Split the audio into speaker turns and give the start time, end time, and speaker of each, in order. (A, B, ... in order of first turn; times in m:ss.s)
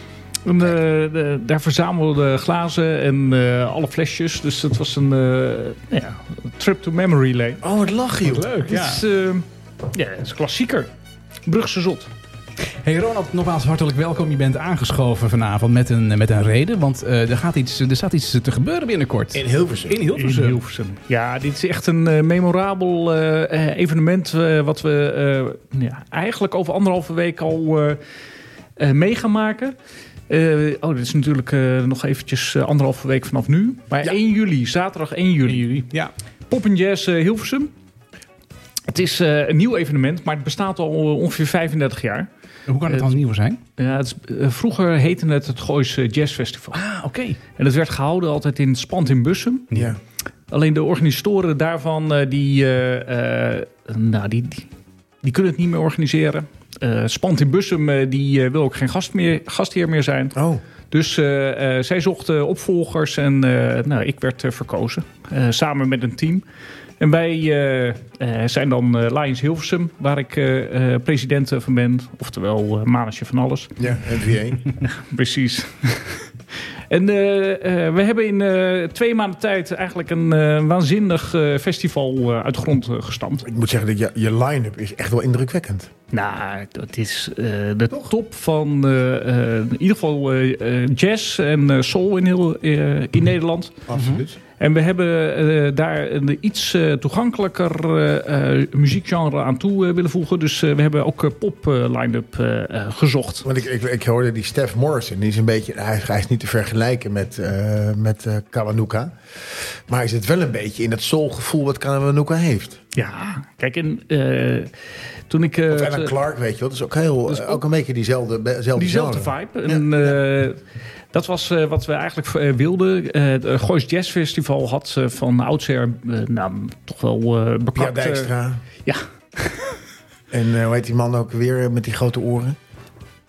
0:00.4-0:07.6 A
0:07.6-0:08.5 B
0:08.2-0:09.0 C
0:08.6-0:10.9 A
0:11.4-0:12.1 A
0:12.8-0:20.6 C
0:19.3-0:20.0 B
0:20.1-0:28.0 A
0:28.8-0:29.8 A
0:30.3-0:35.8 A
0:35.4-0:36.1 C
0:36.5-0:37.7 A
0:38.9-0:42.3 A
0:42.7-0:43.6 C
0:43.8-0:46.8 A
0:46.7-0:47.4 C
0:47.6-0:49.8 A
0:49.7-0:50.0 B
0:50.5-0:54.7 A
0:55.2-1:00.4 A
1:00.3-1:00.6 B
1:00.9-1:06.4 A
1:07.0-1:13.7 A
1:13.8-1:14.7 B
1:14.7-1:23.4 A
1:23.4-1:25.9 B
1:26.1-1:33.8 A
1:33.9-1:34.4 B
1:33.9-1:34.2 C
1:34.6-1:43.4 A
1:43.4-1:49.1 B
1:49.9-1:52.8 B
1:52.9-1:54.7 A
1:55.3-1:56.1 A
1:55.7-2:00.2 B
1:57.3-1:57.6 A
1:58.8-2:00.6 A
2:01.1-2:08.3 A
2:07.8-2:08.6 B
2:08.8-2:09.7 A
2:10.3-2:12.6 B